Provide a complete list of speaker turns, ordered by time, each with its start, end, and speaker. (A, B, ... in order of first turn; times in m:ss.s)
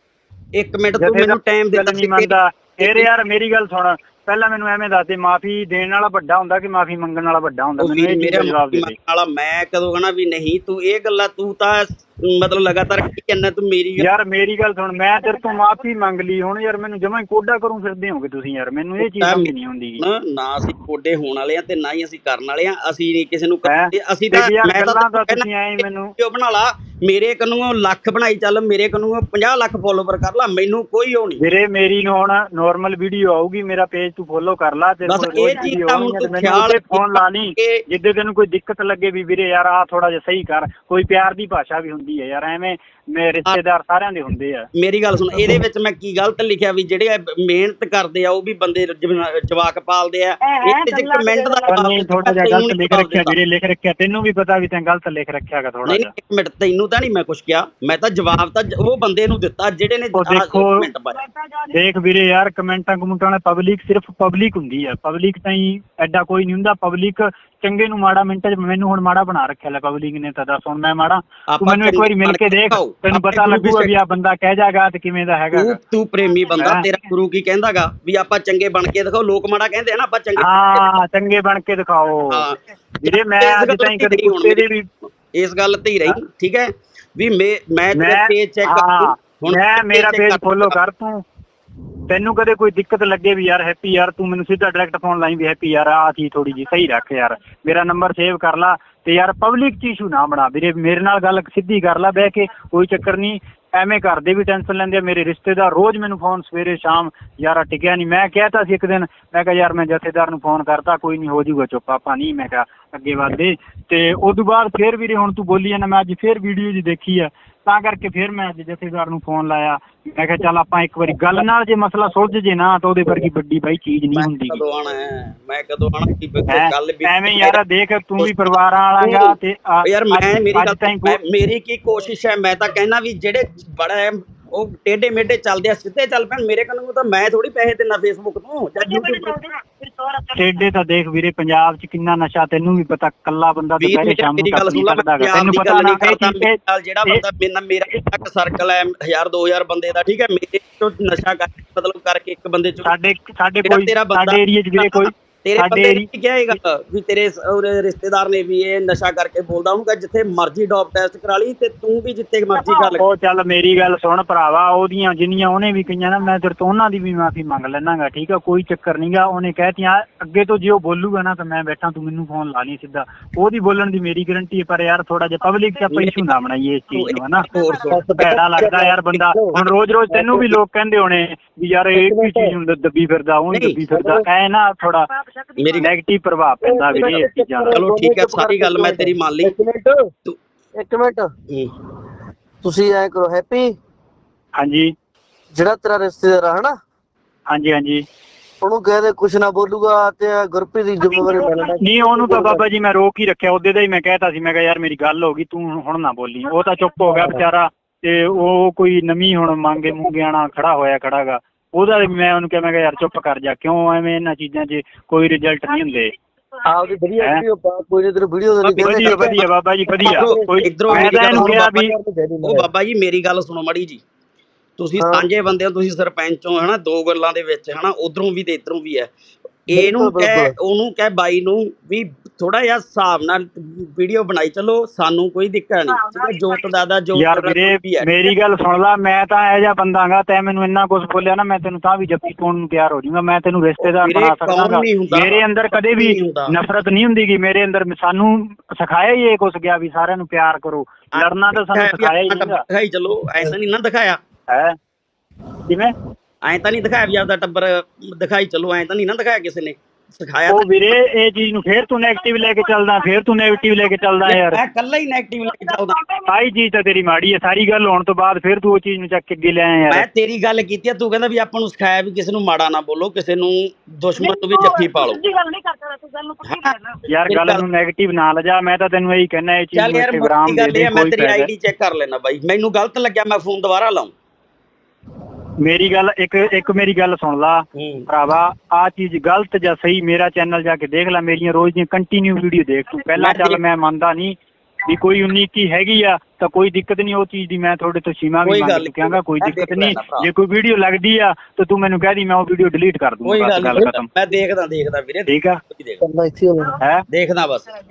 0:00.5-0:03.1 A
0:01.0-0:08.9 B
0:07.8-0:14.1 A
0:14.0-0:20.0 B
0:19.2-0:31.4 A
0:23.6-0:26.1 B
0:31.4-0:44.7 B
0:35.0-0:37.8 A
0:44.8-0:53.3 A
0:50.4-0:51.8 C
0:51.7-0:56.1 B
0:55.8-1:01.2 A
1:00.1-1:00.9 B
1:01.1-1:01.7 C
1:01.7-1:15.8 B
1:11.5-1:13.9 A
1:15.5-1:20.9 A
1:16.6-1:16.8 B
1:20.4-1:22.4 B
1:22.3-1:24.6 A
1:23.0-1:24.9 B
1:25.3-1:30.8 A
1:27.9-1:31.2 B
1:32.1-2:04.6 B
2:04.1-2:07.6 A
2:06.5-2:11.2 B
2:08.2-2:08.5 A
2:09.0-2:19.4 A
2:18.8-2:20.4 C
2:20.3-2:27.2 B
2:23.8-2:32.9 A
2:32.8-2:36.5 B
2:33.6-2:43.0 A
2:42.6-2:42.8 C
2:43.0-2:57.5 B
2:55.9-2:56.3 A
2:56.9-2:58.0 A
2:57.5-2:57.8 C
2:57.9-2:59.6 D
2:58.1-3:05.1 B
3:00.1-3:00.5 D
3:02.0-3:02.5 D
3:03.5-3:03.8 A
3:04.0-3:04.2 D
3:05.2-3:05.7 C
3:05.6-3:05.9 A
3:05.8-3:07.8 B
3:06.6-3:10.0 D
3:06.9-3:09.5 A
3:10.8-3:11.3 D
3:12.6-3:13.7 D
3:14.6-3:14.9 B
3:15.5-3:16.8 D
3:17.5-3:18.0 B
3:18.6-3:22.6 D
3:21.8-3:36.1 B
3:27.1-3:27.4 D
3:36.6-3:39.4 D
3:38.6-3:39.4 A
3:38.8-3:41.9 B
3:40.0-3:41.7 A
3:40.0-3:42.7 D
3:42.4-3:44.0 A
3:44.8-3:49.1 A
3:45.0-3:45.2 D
3:49.7-3:58.1 A
3:49.7-3:50.5 D
3:57.1-4:12.6 B
4:03.8-4:06.6 A
4:11.2-4:14.2 A
4:14.5-4:14.8 B
4:15.7-4:15.9 B
4:16.4-4:20.9 A
4:20.5-4:24.6 B
4:24.2-4:26.0 A
4:25.5-4:26.3 C
4:26.3-4:30.0 B
4:29.9-4:35.2 A
4:34.2-4:37.0 C
4:36.4-4:36.7 A
4:37.1-4:41.5 B
4:37.3-4:37.6 A
4:39.7-4:44.1 A
4:45.6-5:04.1 B
4:47.8-4:48.0 A
4:53.2-4:53.6 A
4:58.4-5:00.3 A
5:03.2-5:06.0 A
5:05.3-5:05.6 B
5:06.0-5:06.8 D
5:07.1-5:07.7 A